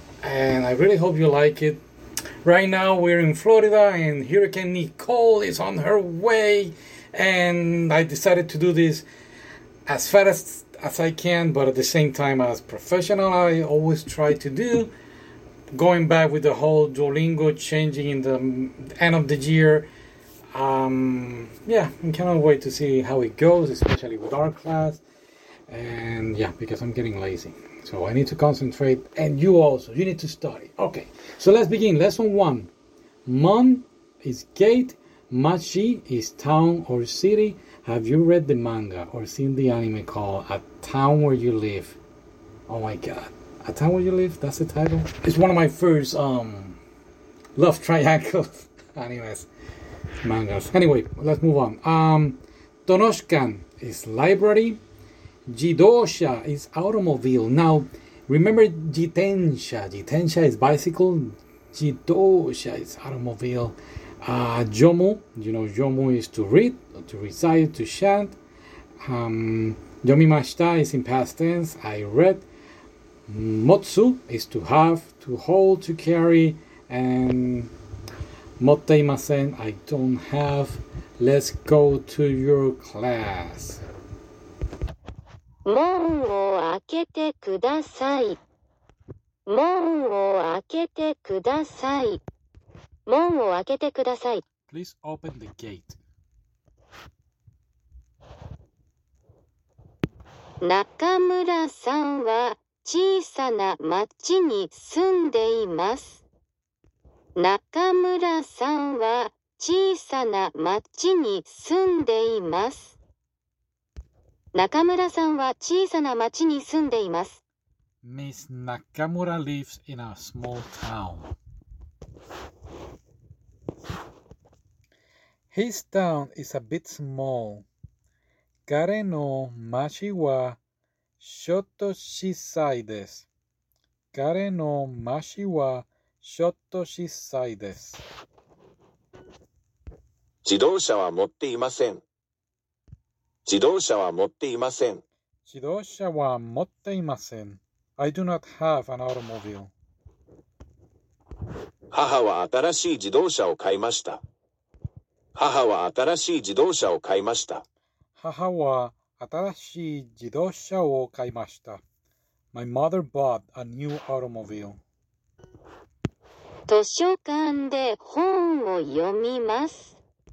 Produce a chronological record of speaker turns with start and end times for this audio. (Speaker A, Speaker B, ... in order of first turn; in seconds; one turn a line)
Speaker A: 0.2-1.8
Speaker A: 2.4-9.1
Speaker A: 9.9-14.9
Speaker A: 15.7-19.9
Speaker A: 20.5-25.0
Speaker A: 25.7-32.7
Speaker A: 33.2-42.0
Speaker A: 42.7-46.8
Speaker A: 47.5-49.5
Speaker A: 50.2-54.8
Speaker A: 55.5-68.4
Speaker A: 69.0-72.4
Speaker A: 73.3-77.7
Speaker A: 78.6-83.8
Speaker B: 85.6-88.4
Speaker B: 89.5-92.2
Speaker B: 93.1-94.4
Speaker A: 94.7-96.0
Speaker B: 100.6-106.2
Speaker B: 107.3-113.0
Speaker B: 114.5-117.4
Speaker A: 118.0-121.3
Speaker A: 125.5-127.7
Speaker A: 128.7-130.6
Speaker A: 131.2-133.3
Speaker A: 134.1-138.0
Speaker C: 140.4-142.0
Speaker C: 143.4-145.0
Speaker A: 145.4-149.7
Speaker C: 151.9-154.2
Speaker C: 155.3-157.6
Speaker A: 158.2-161.8
Speaker A: 162.5-164.8
Speaker B: 166.7-169.9